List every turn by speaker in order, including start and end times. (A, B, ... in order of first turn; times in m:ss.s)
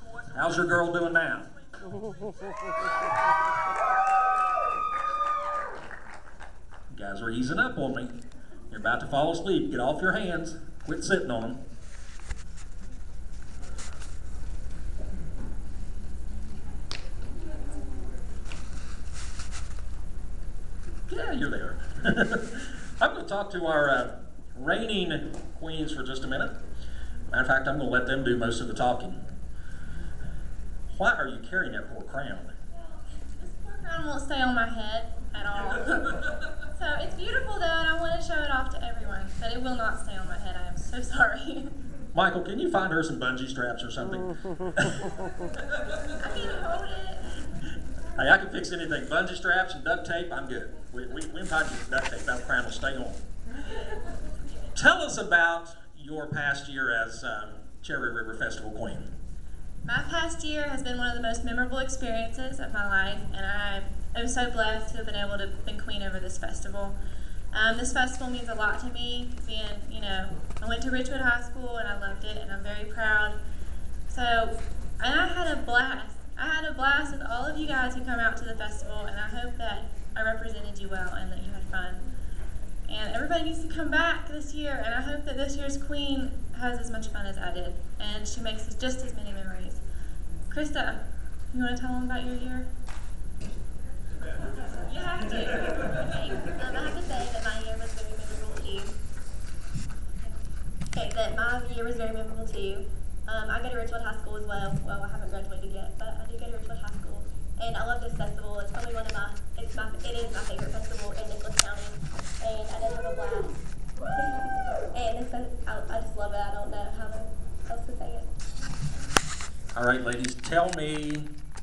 0:00.3-0:01.5 A
0:06.9-0:08.1 A
0:08.7-0:11.6 A
0:21.1-0:26.6 A
0:27.3-0:29.2 A
0:30.9-0:32.5 A
0:33.4-0:41.8 B
0:42.1-0:45.1 A
0:46.2-0:47.4 B
0:48.2-0:53.2 A
0:54.7-0:59.1 A
0:59.8-1:07.0 B
1:07.5-1:13.4 B
1:14.1-1:22.0 B
1:22.9-1:29.8 B
1:30.5-1:32.7 B
1:34.8-1:36.8 B
1:36.3-1:38.9 C
1:40.9-1:53.6 C
1:54.2-1:58.3 C
1:59.7-2:01.3 A